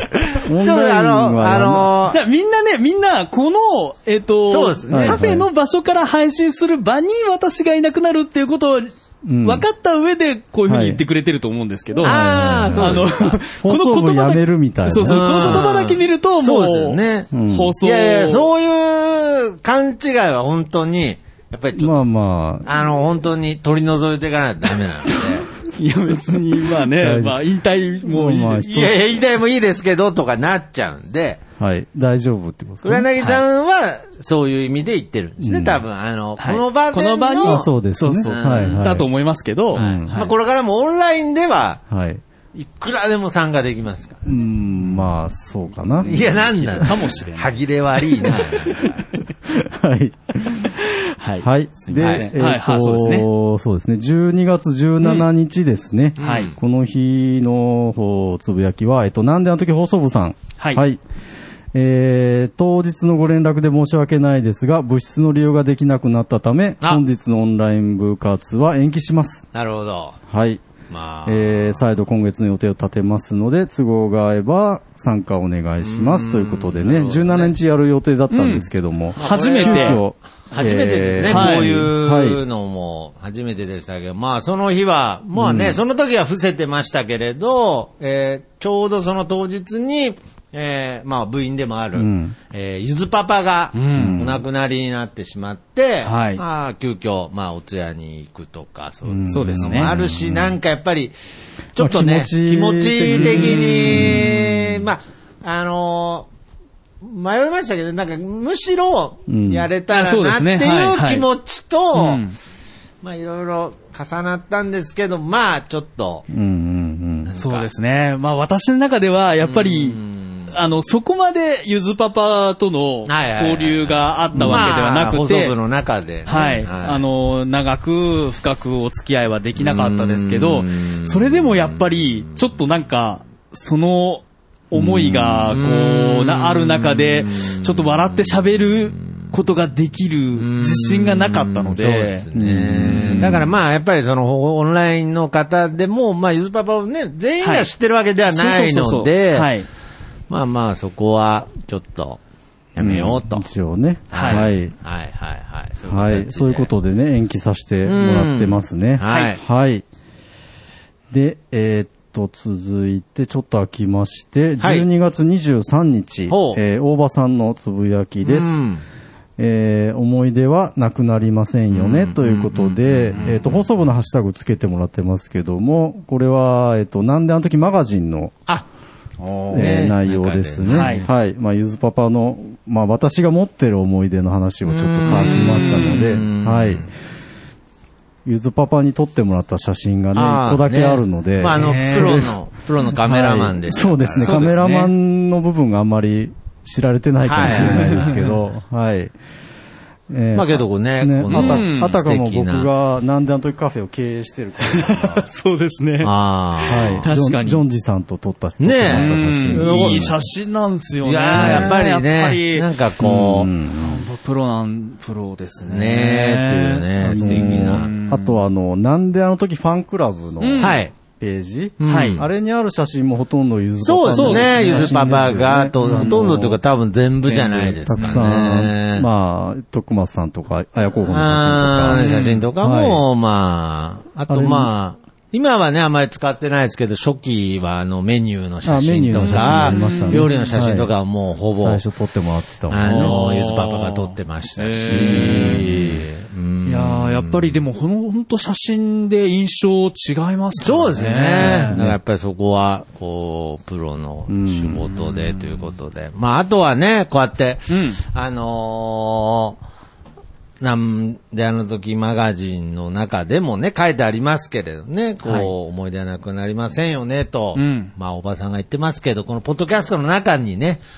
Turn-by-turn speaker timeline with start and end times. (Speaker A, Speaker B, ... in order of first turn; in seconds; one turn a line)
Speaker A: 0.3-2.2
Speaker B: 0.4-2.0
Speaker C: 2.1-8.9
Speaker A: 4.5-5.4
Speaker B: 4.9-5.5
Speaker B: 9.2-9.7
Speaker C: 9.4-18.5
Speaker B: 10.7-11.0
Speaker A: 12.0-13.4
Speaker B: 12.0-15.6
Speaker A: 15.0-17.3
Speaker B: 17.3-17.8
Speaker A: 17.8-22.0
Speaker B: 21.7-22.7
Speaker A: 22.6-25.5
Speaker C: 25.6-28.9
Speaker B: 26.9-27.4
Speaker B: 28.0-28.9
Speaker A: 28.7-31.4
Speaker B: 31.6-33.1
Speaker A: 32.8-37.7
Speaker B: 35.4-35.9
Speaker C: 36.4-40.3
Speaker B: 37.4-39.1
Speaker A: 38.2-39.0
Speaker B: 39.7-40.1
Speaker A: 39.7-41.8
Speaker B: 41.9-42.2
Speaker A: 42.5-44.2
Speaker B: 44.2-46.4
Speaker C: 44.8-45.1
Speaker C: 46.0-47.6
Speaker A: 46.1-49.0
Speaker C: 48.2-49.0
Speaker B: 49.5-50.8
Speaker C: 50.8-53.3
Speaker B: 51.4-61.0
Speaker A: 52.0-52.3
Speaker C: 55.0-55.3
Speaker A: 56.2-56.5
Speaker C: 56.2-56.5
Speaker C: 60.6-60.8
Speaker B: 61.7-69.5
Speaker A: 69.5-70.2
Speaker B: 70.3-70.6
Speaker A: 70.9-71.8
Speaker B: 71.2-82.4
Speaker A: 75.8-77.5
Speaker C: 78.3-80.0
Speaker A: 79.2-101.1
Speaker C: 81.3-81.8
Speaker B: 85.4-85.8
Speaker B: 92.0-92.3
Speaker C: 93.7-94.2
Speaker B: 93.9-94.4
Speaker C: 96.0-96.4
Speaker B: 99.1-100.6
Speaker C: 99.3-99.9
Speaker A: 101.7-106.3
Speaker B: 101.8-104.8
Speaker C: 103.1-104.2
Speaker A: 107.0-112.2
Speaker B: 109.3-109.7
Speaker C: 109.9-111.2
Speaker C: 111.9-112.3
Speaker A: 113.0-116.2
Speaker B: 116.3-117.3
Speaker A: 117.2-117.7
Speaker C: 117.4-125.5
Speaker A: 119.4-120.5
Speaker A: 123.1-127.0
Speaker B: 124.3-124.8
Speaker C: 126.3-142.2
Speaker A: 129.6-131.8
Speaker B: 134.7-135.5
Speaker A: 135.5-139.0
Speaker A: 140.4-149.5
Speaker B: 142.3-143.4
Speaker C: 142.9-143.4
Speaker C: 147.4-147.7
Speaker C: 148.3-149.7
Speaker A: 150.3-152.2
Speaker A: 152.7-153.4
Speaker B: 152.8-154.7
Speaker A: 154.1-156.7
Speaker C: 154.1-154.5
Speaker B: 155.9-159.8
Speaker A: 157.8-159.4
Speaker B: 161.1-168.6
Speaker A: 164.6-164.9
Speaker A: 166.3-166.6
Speaker A: 168.2-168.8
Speaker B: 169.4-178.4
Speaker A: 171.7-173.6
Speaker C: 173.1-173.4
Speaker C: 179.2-179.8
Speaker B: 179.5-186.9
Speaker A: 179.5-181.1
Speaker C: 180.7-181.1
Speaker A: 184.7-186.9
Speaker C: 185.1-186.1
Speaker B: 188.2-192.3
Speaker A: 190.1-194.6
Speaker C: 191.5-192.2
Speaker B: 192.9-199.1
Speaker C: 194.2-194.9
Speaker A: 197.2-198.2
Speaker C: 197.5-198.3
Speaker B: 200.1-205.3
Speaker A: 200.3-202.7
Speaker C: 201.3-202.0
Speaker C: 204.6-206.1
Speaker A: 206.0-207.1
Speaker B: 206.7-210.2
Speaker C: 207.0-207.6
Speaker A: 208.6-210.1
Speaker C: 208.9-212.7
Speaker A: 211.0-213.5
Speaker B: 211.3-211.7
Speaker B: 213.0-214.1
Speaker C: 213.7-218.4
Speaker A: 215.6-217.9
Speaker B: 217.0-226.6
Speaker C: 220.4-220.8
Speaker A: 220.6-220.9
Speaker A: 221.8-222.3
Speaker C: 221.9-222.2
Speaker A: 223.8-229.1
Speaker C: 224.1-225.2
Speaker C: 225.8-226.2
Speaker B: 227.3-233.0
Speaker C: 227.9-228.2
Speaker A: 231.1-241.8
Speaker C: 232.0-232.3
Speaker B: 234.3-234.7
Speaker B: 238.6-240.9
Speaker C: 239.1-240.5
Speaker B: 241.6-243.1
Speaker A: 242.7-247.6
Speaker C: 242.8-245.8
Speaker B: 244.9-246.1
Speaker C: 246.6-251.8
Speaker A: 250.6-259.6
Speaker B: 251.7-252.0
Speaker B: 254.3-254.9
Speaker C: 255.0-255.7
Speaker C: 257.7-258.0
Speaker A: 260.6-270.8
Speaker C: 265.2-265.5
Speaker C: 267.6-267.9